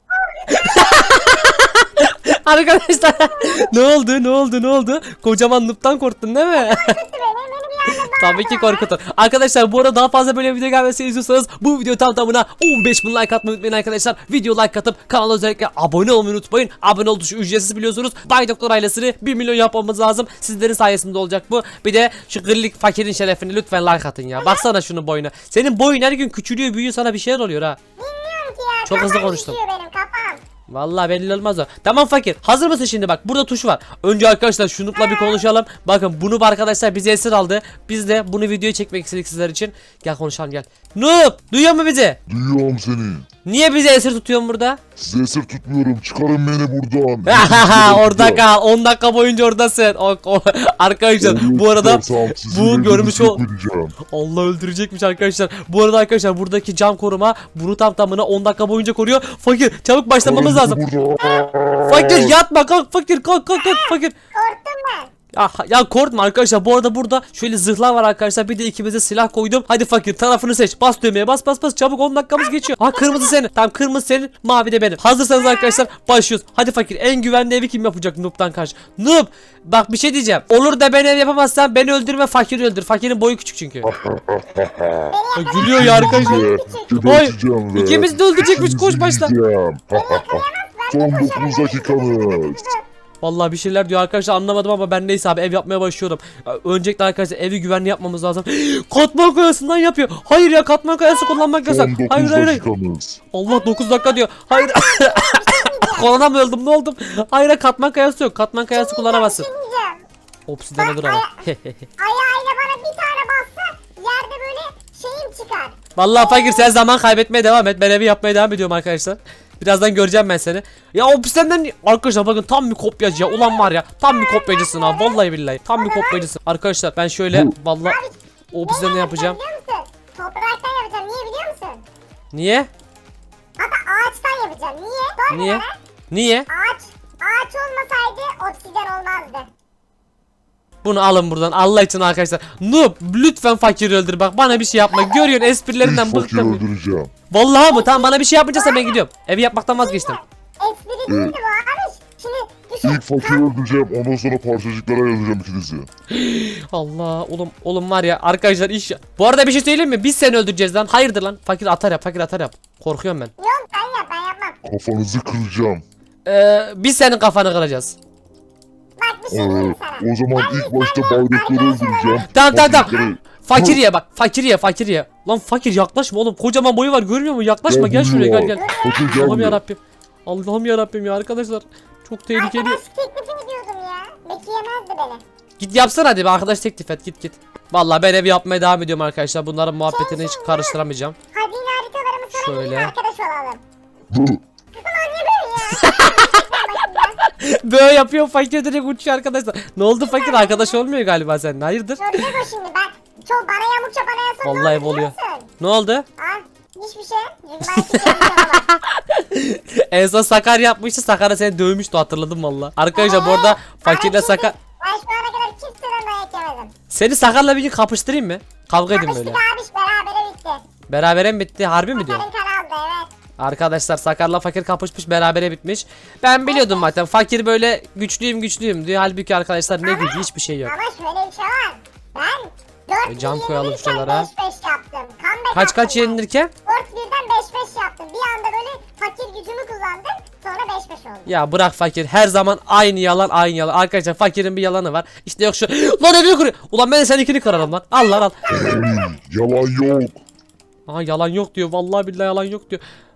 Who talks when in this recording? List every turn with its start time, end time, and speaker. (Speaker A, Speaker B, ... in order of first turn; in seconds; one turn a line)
Speaker A: 0.1-1.6
Speaker B: 0.5-7.0
Speaker A: 2.8-3.7
Speaker A: 6.6-8.9
Speaker B: 7.9-27.8
Speaker A: 24.4-24.7
Speaker A: 28.0-30.4
Speaker B: 28.9-29.6
Speaker B: 30.7-42.2
Speaker A: 35.0-35.5
Speaker C: 42.3-43.3
Speaker B: 43.5-44.8
Speaker C: 45.0-48.4
Speaker B: 47.2-53.4
Speaker C: 51.2-54.0
Speaker B: 54.1-60.8
Speaker C: 60.2-62.4
Speaker A: 61.2-61.5
Speaker B: 61.8-64.1
Speaker A: 63.5-65.1
Speaker B: 65.3-83.9
Speaker A: 72.7-73.4
Speaker A: 75.5-75.8
Speaker C: 83.8-92.7
Speaker A: 85.1-85.6
Speaker B: 85.3-86.5
Speaker A: 86.2-87.2
Speaker B: 87.0-89.3
Speaker A: 89.9-92.8
Speaker B: 93.2-102.6
Speaker A: 101.1-101.5
Speaker C: 101.6-103.2
Speaker B: 103.3-109.5
Speaker A: 103.5-106.2
Speaker A: 108.7-110.0
Speaker B: 110.5-111.9
Speaker A: 110.8-111.3
Speaker A: 112.0-116.7
Speaker B: 116.0-128.0
Speaker A: 123.2-125.2
Speaker A: 125.8-126.3
Speaker A: 127.8-131.8
Speaker B: 128.5-129.4
Speaker B: 132.3-132.7
Speaker A: 133.6-135.7
Speaker B: 135.3-136.5
Speaker A: 136.5-139.5
Speaker B: 140.8-146.6
Speaker A: 144.7-145.4
Speaker C: 145.8-147.1
Speaker B: 147.3-150.2
Speaker A: 147.7-148.9
Speaker A: 149.8-153.4
Speaker C: 151.1-151.3
Speaker C: 152.8-155.9
Speaker B: 156.1-163.3
Speaker A: 163.4-164.6
Speaker C: 164.6-165.8
Speaker B: 166.2-167.9
Speaker A: 169.0-172.3
Speaker C: 169.3-173.8
Speaker B: 172.3-182.8
Speaker C: 177.7-179.6
Speaker A: 178.5-179.0
Speaker A: 182.3-185.2
Speaker B: 185.6-191.2
Speaker A: 189.9-190.8
Speaker A: 191.3-193.6
Speaker B: 192.3-192.9
Speaker C: 194.1-194.4
Speaker A: 194.7-197.2
Speaker B: 195.7-202.4
Speaker A: 200.0-200.8
Speaker A: 202.0-205.5
Speaker B: 204.4-206.1
Speaker A: 206.2-208.7
Speaker B: 207.7-214.6
Speaker A: 212.9-216.7
Speaker B: 216.9-219.4
Speaker A: 218.9-220.6
Speaker B: 220.9-222.2
Speaker A: 221.9-223.1
Speaker B: 223.4-230.7
Speaker A: 226.5-226.9
Speaker A: 229.8-241.3
Speaker B: 233.0-234.3
Speaker B: 235.5-236.5
Speaker B: 241.2-248.4
Speaker A: 247.5-248.8
Speaker C: 248.5-250.2
Speaker B: 250.9-252.8